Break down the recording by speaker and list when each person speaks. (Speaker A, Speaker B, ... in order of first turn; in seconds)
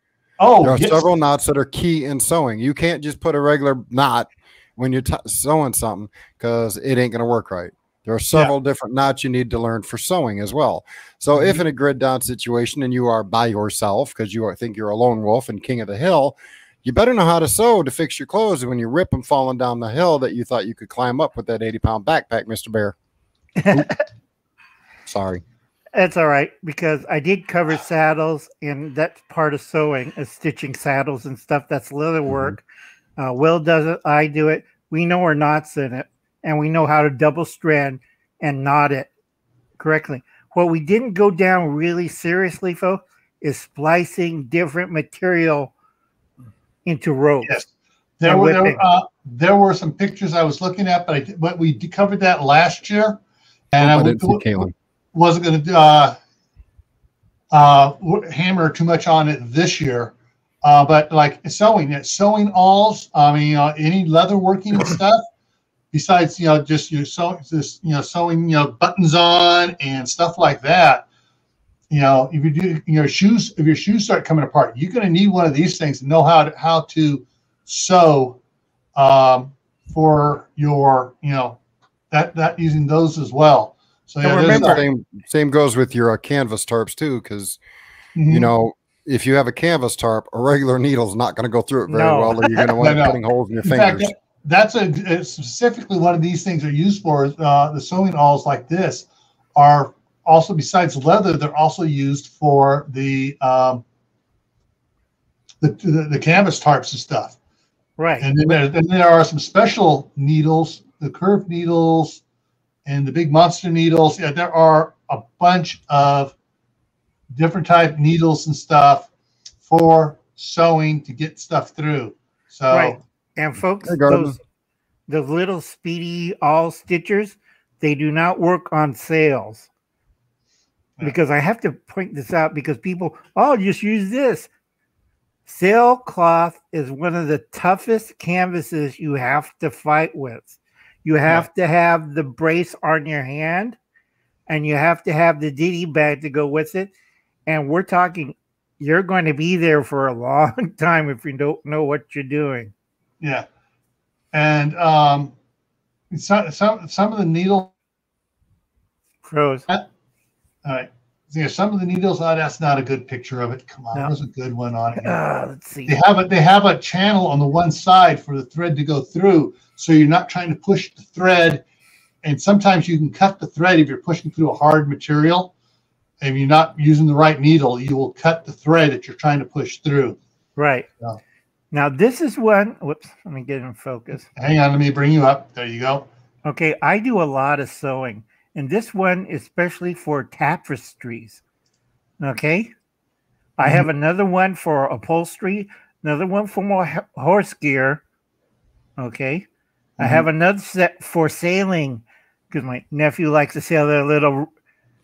Speaker A: 0.4-1.1, 11.3-11.6, 48.2-53.2, 53.7-56.2, 57.5-65.2, 65.9-71.0, 71.9-78.4, 79.0-81.6, 82.1-84.8, 88.2-88.5, 92.8-103.8, 105.6-107.4, 108.2-112.2, 112.9-116.3, 117.3-119.1, 119.7-123.0, 153.2-153.5, 154.3-155.3, 156.1-157.7, 160.7-165.2, 165.9-171.6, 172.2-175.5, 176.2-180.2, 184.4-186.1, 200.0-200.3
Speaker B: 0.6-22.9, 25.1-25.4, 53.8-54.7, 84.5-87.6, 88.3-94.1, 123.9-124.4
Speaker C: 23.6-24.0, 25.9-32.6, 33.2-39.1, 39.8-45.7, 46.9-47.6, 48.3-48.8, 84.2-84.8, 91.9-92.7, 108.0-108.6, 122.7-124.4, 125.1-129.7, 131.0-134.5, 135.5-143.8, 144.5-146.9, 147.5-152.7, 159.2-159.7, 165.0-166.0, 180.6-180.9, 181.7-184.3, 186.4-191.4, 192.2-192.7, 193.6-198.0, 199.0-199.4, 200.0-204.5